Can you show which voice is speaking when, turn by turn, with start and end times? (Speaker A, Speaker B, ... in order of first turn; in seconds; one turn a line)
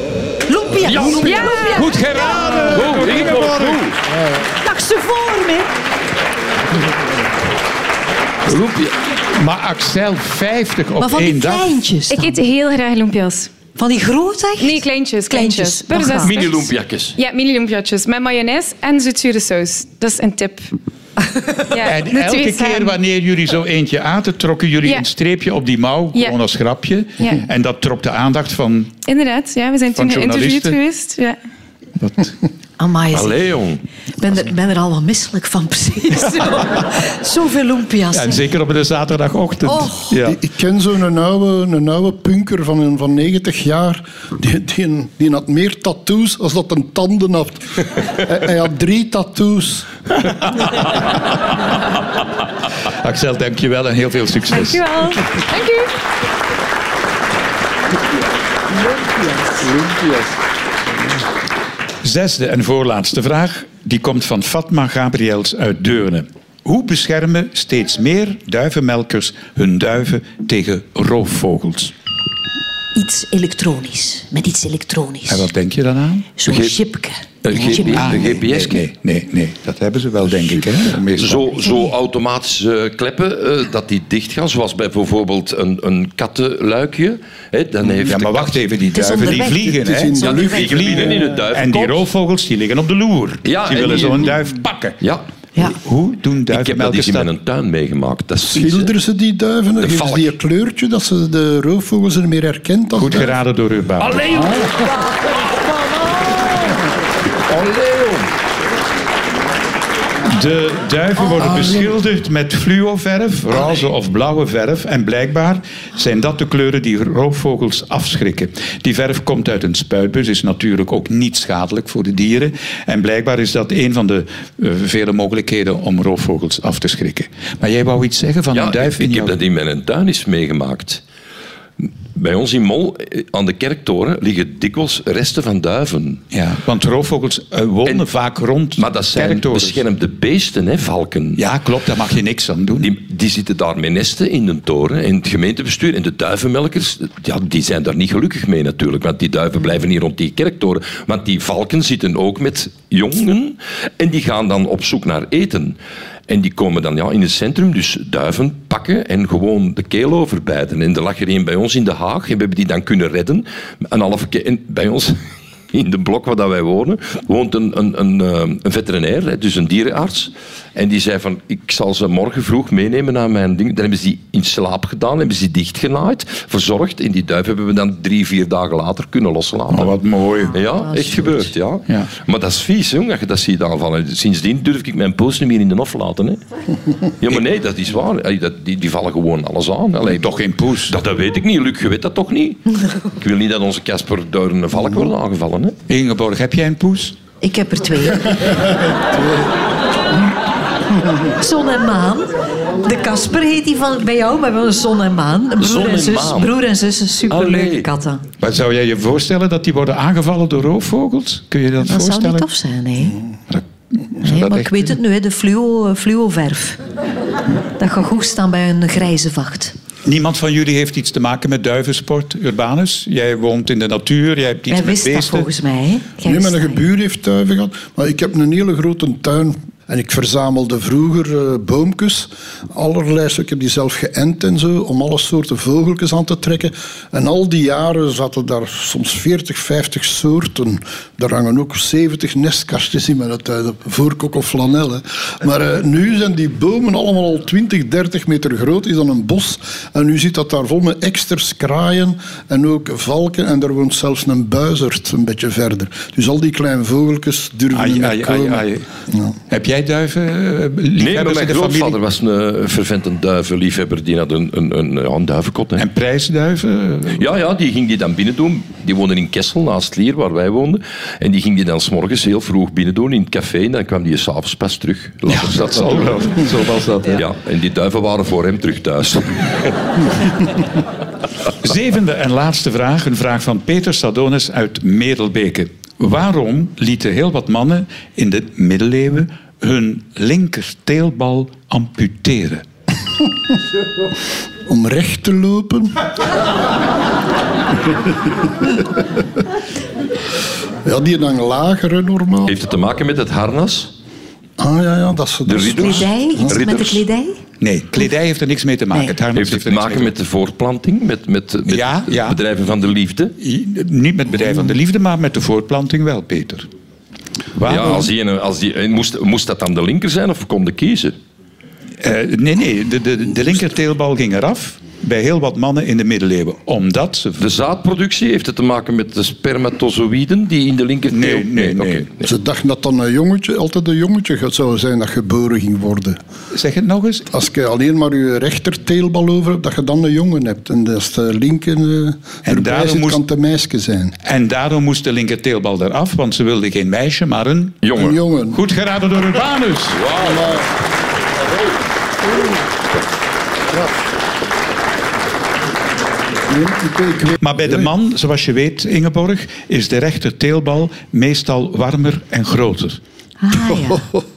Speaker A: 0.5-1.9
Speaker B: 0.8-1.4
Speaker C: 1.1-1.9
Speaker D: 1.6-3.8
Speaker B: 2.5-4.0
Speaker A: 4.6-5.7
Speaker B: 8.4-9.0
Speaker D: 9.3-11.8
Speaker A: 11.0-12.4
Speaker C: 12.1-13.5
Speaker A: 13.8-16.4
Speaker C: 14.6-20.7
Speaker B: 16.2-17.1
Speaker C: 21.7-23.0
Speaker D: 21.8-28.9
Speaker C: 29.1-31.4
Speaker D: 29.9-30.8
Speaker D: 32.0-32.3
Speaker A: 32.8-33.4
Speaker B: 33.1-33.8
Speaker A: 34.2-38.4
Speaker D: 38.1-40.4
Speaker A: 39.6-40.1
Speaker E: 40.2-49.9
Speaker D: 53.0-55.0
Speaker C: 54.5-55.9
Speaker D: 62.0-71.9
Speaker A: 72.9-75.5
Speaker D: 75.3-76.3
Speaker A: 76.4-78.3
Speaker B: 76.5-76.7
Speaker B: 77.4-78.8
Speaker D: 77.8-81.6
Speaker B: 81.1-88.6
Speaker D: 88.0-95.0
Speaker A: 88.9-90.8
Speaker E: 89.2-91.3
Speaker B: 90.2-92.0
Speaker B: 93.4-94.3
Speaker B: 95.0-95.2
Speaker D: 95.7-97.3
Speaker B: 96.5-98.9
Speaker E: 98.5-103.3
Speaker B: 99.8-100.3
Speaker D: 103.0-104.5
Speaker B: 104.0-105.5
Speaker B: 107.5-108.3
Speaker D: 110.2-129.3
Speaker B: 128.5-131.0
Speaker B: 132.1-136.2
Speaker D: 136.3-139.8
Speaker B: 138.8-141.4
Speaker D: 141.3-142.9
Speaker B: 142.8-155.8
Speaker B: 156.3-179.9
Speaker D: 179.7-180.6
Speaker B: 180.5-186.4
Speaker A: 180.5-181.4
Speaker B: 187.2-190.3
Speaker D: 190.1-190.9
Speaker B: 190.9-195.8
Speaker D: 195.9-197.2
Speaker A: 197.4-198.6
Speaker A: 201.4-208.2
Speaker B: 205.6-206.5
Speaker B: 207.3-207.9
Speaker D: 208.4-212.4
Speaker A: 211.8-213.2
Speaker D: 213.5-215.0
Speaker A: 214.2-216.8
Speaker A: 217.8-219.7
Speaker D: 220.0-225.5
Speaker A: 224.7-226.8
Speaker E: 226.2-259.3
Speaker D: 257.7-258.9
Speaker D: 259.5-262.0
Speaker B: 261.0-265.8
Speaker D: 265.8-267.3
Speaker B: 267.2-276.4
Speaker D: 275.3-277.2
Speaker B: 277.1-279.7
Speaker D: 281.6-292.6
Speaker E: 294.7-296.0
Speaker E: 300.8-302.6
Speaker B: 302.5-303.9
Speaker E: 304.6-306.6
Speaker B: 305.4-307.0
Speaker A: 305.6-307.4
Speaker D: 307.6-310.1
Speaker B: 309.3-313.3
Speaker D: 311.7-312.4
Speaker D: 313.4-316.7
Speaker D: 317.5-318.1
Speaker B: 317.6-321.1
Speaker D: 322.0-327.4
Speaker B: 327.4-332.3
Speaker D: 331.1-332.1
Speaker E: 332.2-336.2
Speaker D: 336.5-337.3
Speaker E: 337.3-344.2
Speaker D: 342.4-343.2
Speaker D: 344.2-347.8
Speaker B: 347.8-348.2
Speaker E: 348.0-348.6
Speaker D: 348.5-350.0
Speaker B: 349.9-350.6
Speaker E: 356.5-357.7
Speaker D: 357.3-363.0
Speaker A: 363.4-364.1